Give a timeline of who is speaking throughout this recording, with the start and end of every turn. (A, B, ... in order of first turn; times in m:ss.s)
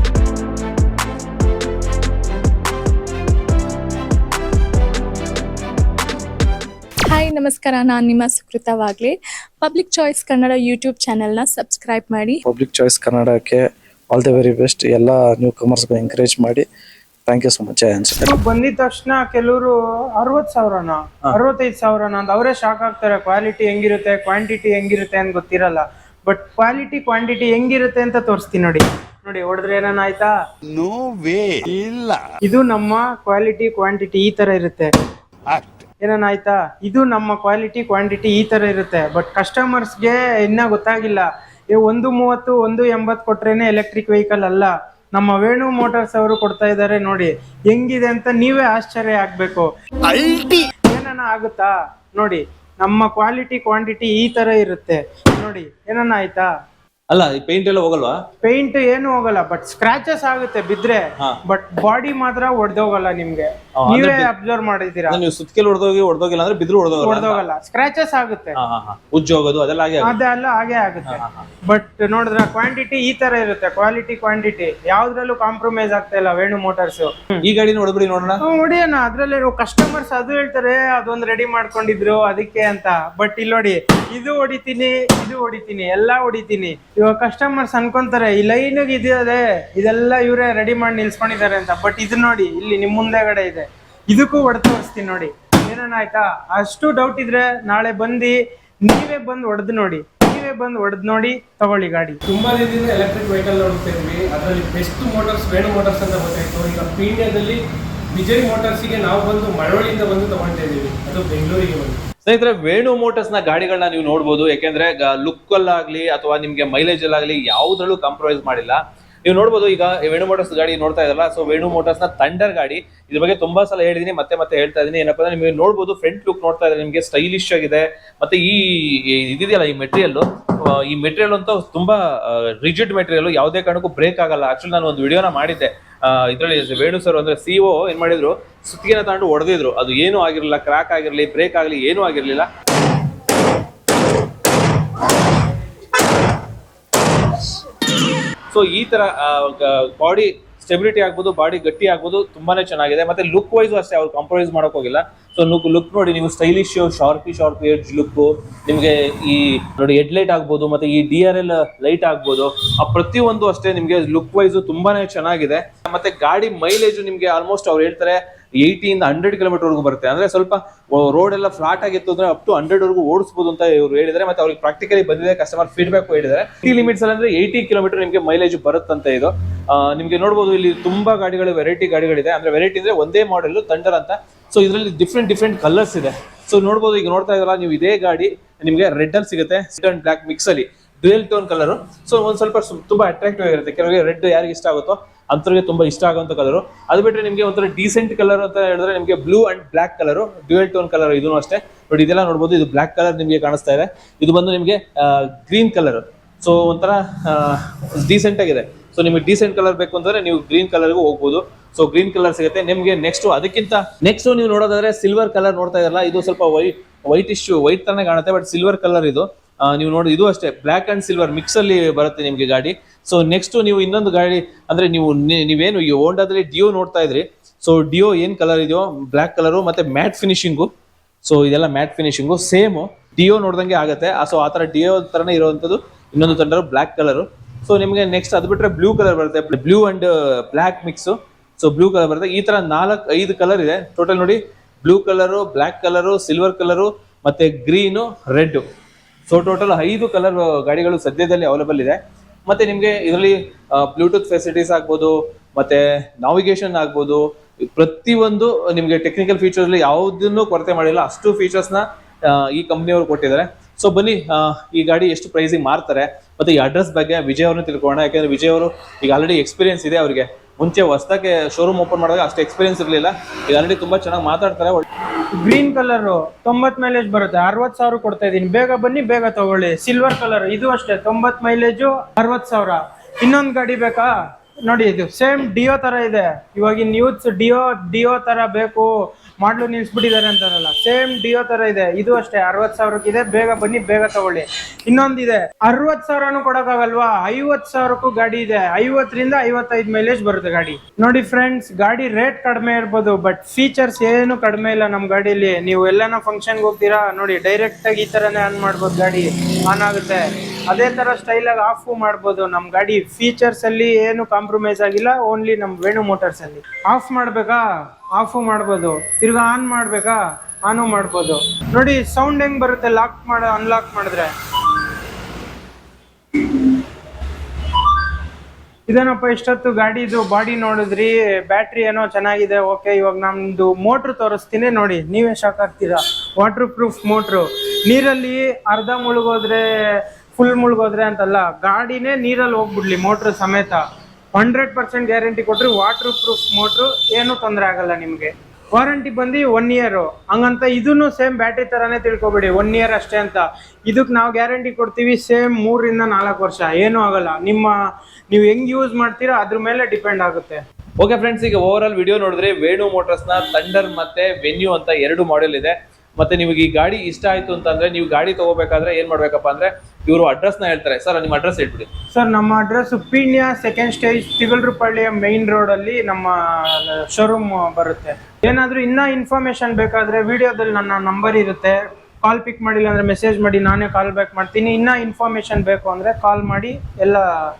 0:07.1-0:12.4 A
0:12.4-0:16.7 B
0:17.2-0:18.3 B
0:18.2-0:30.3 C
0:30.7-0:32.2 D
0:32.4-0:34.9 C
0:35.5-0:35.8 D
0:36.0-0:49.7 C
0:50.1-0:50.6 D
0:50.9-0:56.5 C
0:57.1-0:58.2 E
0:58.4-1:05.2 C
1:03.8-1:04.3 E
1:05.1-1:07.4 E
1:07.0-1:08.6 C
1:08.6-1:10.2 E
1:10.0-1:17.4 C
1:11.1-1:11.5 E
1:17.4-1:18.4 E
1:18.4-1:42.2 C
1:42.3-1:47.6 F
1:48.1-1:52.0 F
1:52.2-2:22.5 E
2:28.5-3:50.7 E
3:51.2-4:08.6 E
4:09.3-4:34.8 E
4:35.4-4:44.1 C
4:44.7-4:48.9 C
4:49.4-5:17.6 C
5:18.2-5:24.3 C
5:28.9-5:43.8 C
5:44.3-5:57.7 C
5:58.3-6:00.6 C
6:01.0-6:11.9 E
6:12.1-6:27.2 C